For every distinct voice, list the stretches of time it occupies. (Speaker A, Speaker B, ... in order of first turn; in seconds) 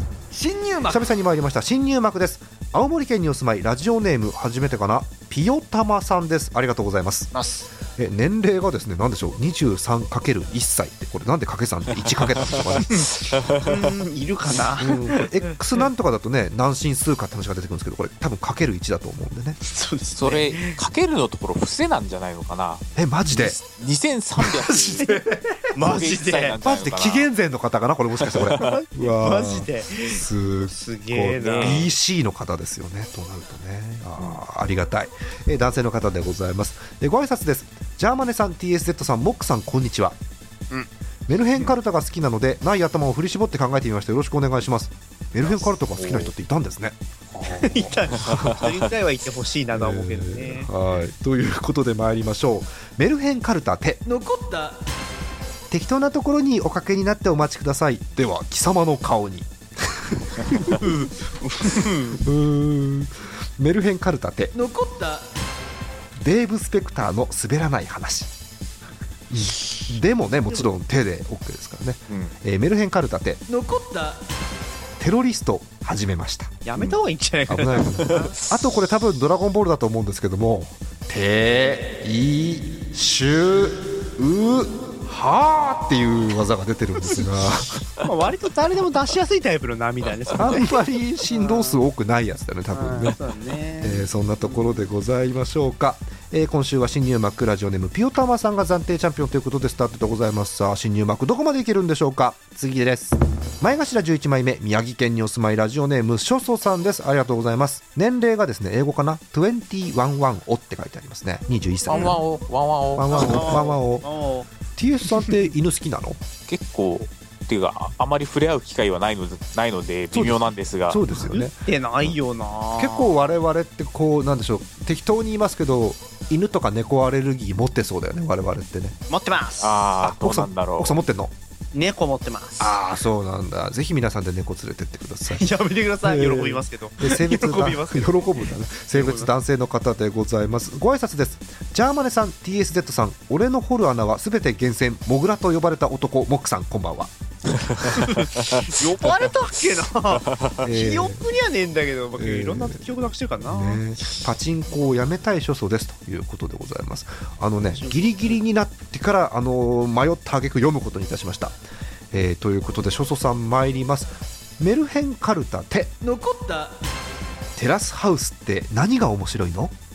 Speaker A: 0.3-1.0, 54.0-54.8, 64.5-65.3, 73.5-74.2, 166.0-166.7
Speaker B: 0.9-7.3, 8.0-13.3, 14.8-19.6, 23.0-23.6, 25.2-25.6, 26.6-40.2, 41.3-48.6, 49.7-54.0, 55.7-60.8, 62.2-64.5, 66.2-68.3, 69.3-73.4, 75.0-77.0, 77.5-87.8, 90.4-93.2, 93.8-112.2, 113.0-114.1, 114.8-116.2, 120.1-121.6, 122.8-129.0, 130.0-131.3, 132.6-147.1, 150.6-151.2, 152.2-152.9, 153.4-161.6, 162.1-165.9, 167.6-169.7
Speaker C: 7.3-7.7, 12.9-15.5, 19.6-20.8, 24.5-26.6, 28.5-31.9, 47.5-50.7, 60.7-62.2, 76.7-78.3, 88.0-91.8, 92.7-94.8, 111.9-112.2, 113.1-114.5, 121.1-123.2, 129.1-129.9, 131.7-132.8, 135.3-139.3, 148.0-153.8, 157.7-158.3
Speaker D: 13.3-13.8, 20.1-25.2, 25.8-27.3, 28.3-28.7, 31.4-31.9, 46.0-46.3, 111.9-113.7, 116.5-121.0, 129.6-131.0